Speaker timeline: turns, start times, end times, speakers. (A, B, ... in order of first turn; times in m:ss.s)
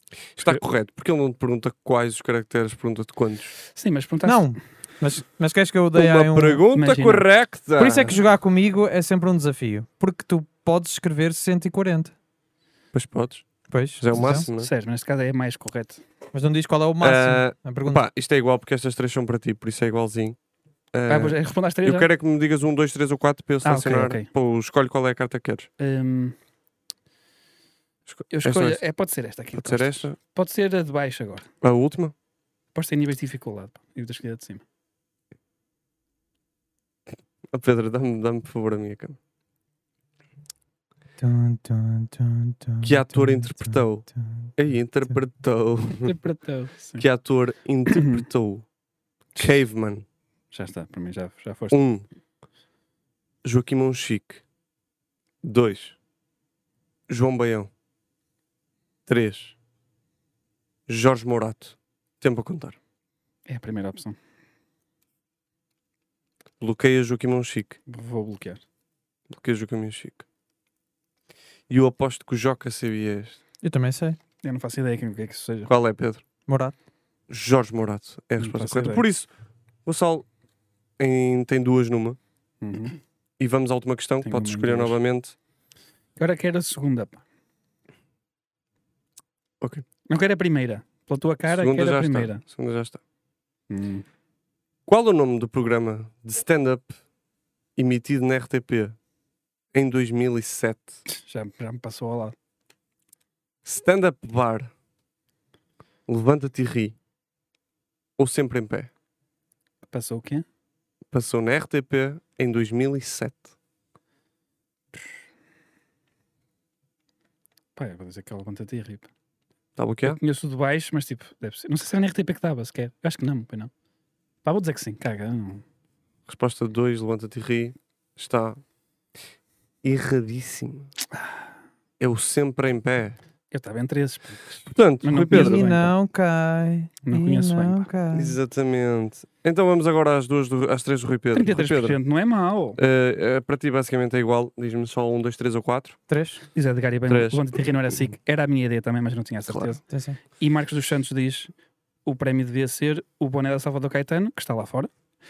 0:00.3-0:03.5 A
0:03.7-0:04.5 B
0:04.3-0:06.6 C
0:06.0-0:08.2 A
0:06.7-0:07.3 B
0:07.8-0:12.1 C
0:12.9-0:14.7 A
0:13.7-0:14.5 C
0:14.2-0:16.0 B
0:16.3-0:18.0 C
0:17.0-0:20.4 A
0:20.9-0:25.7 A
0:21.1-0:22.1 B
0:23.6-0:24.3 B
0:25.8-0:26.4 B
0:28.1-0:28.8 A
0:28.3-0:31.5 B
0:29.6-0:30.2 A
0:31.6-0:32.2 A
0:32.8-0:34.6 B
0:37.5-0:39.2 A
0:41.2-0:44.5 C
0:42.8-0:46.1 A
0:46.0-0:47.0 B
0:47.0-0:48.7 A
0:47.9-0:48.2 B
0:49.4-0:50.0 A
0:50.5-0:51.8 B
0:51.7-0:52.0 A
0:53.4-0:54.4 A
0:55.4-0:56.0 A
0:57.1-0:57.7 A
0:59.1-0:59.6 A
1:00.9-1:02.8 A
1:03.5-1:04.2 B
1:06.6-1:07.8 A
1:07.9-1:08.6 B
1:09.3-1:10.3 A
1:11.7-1:13.4 A
1:13.6-1:14.2 C
1:14.4-1:15.7 B
1:15.7-1:16.2 A
1:16.5-1:16.7 C
1:17.3-1:19.3 A
1:18.4-1:19.0 B
1:19.8-1:20.3 A
1:21.0-1:22.2 A
1:22.6-1:23.0 B
1:23.4-1:25.4 A
1:24.2-1:25.0 B
1:26.2-1:27.2 B
1:30.1-1:32.4 B
1:31.5-1:33.0 A
1:33.7-1:34.0 B
1:34.9-1:37.0 A
1:37.8-1:39.0 A
1:39.7-1:41.0 A
1:41.1-1:42.4 B
1:43.6-1:44.7 A
1:46.1-1:47.0 A
1:48.2-1:48.9 A
1:49.9-1:50.4 B
1:51.1-1:53.4 A
1:57.8-1:59.1 B
1:59.8-2:00.2 A
2:00.0-2:03.7 B
2:04.4-2:05.6 B
2:06.3-2:08.6 A
2:09.8-2:10.9 A
2:12.0-2:13.2 A
2:13.5-2:15.9 B
2:14.7-2:15.7 A
2:15.3-2:18.4 C
2:17.0-2:17.9 B
2:18.1-2:22.0 A
2:21.3-2:22.8 B
2:22.8-2:26.0 A
2:26.1-2:26.4 C
2:26.5-2:31.5 B
2:27.1-2:27.4 A
2:29.5-2:29.8 A
2:29.9-2:30.2 C
2:32.1-2:34.9 B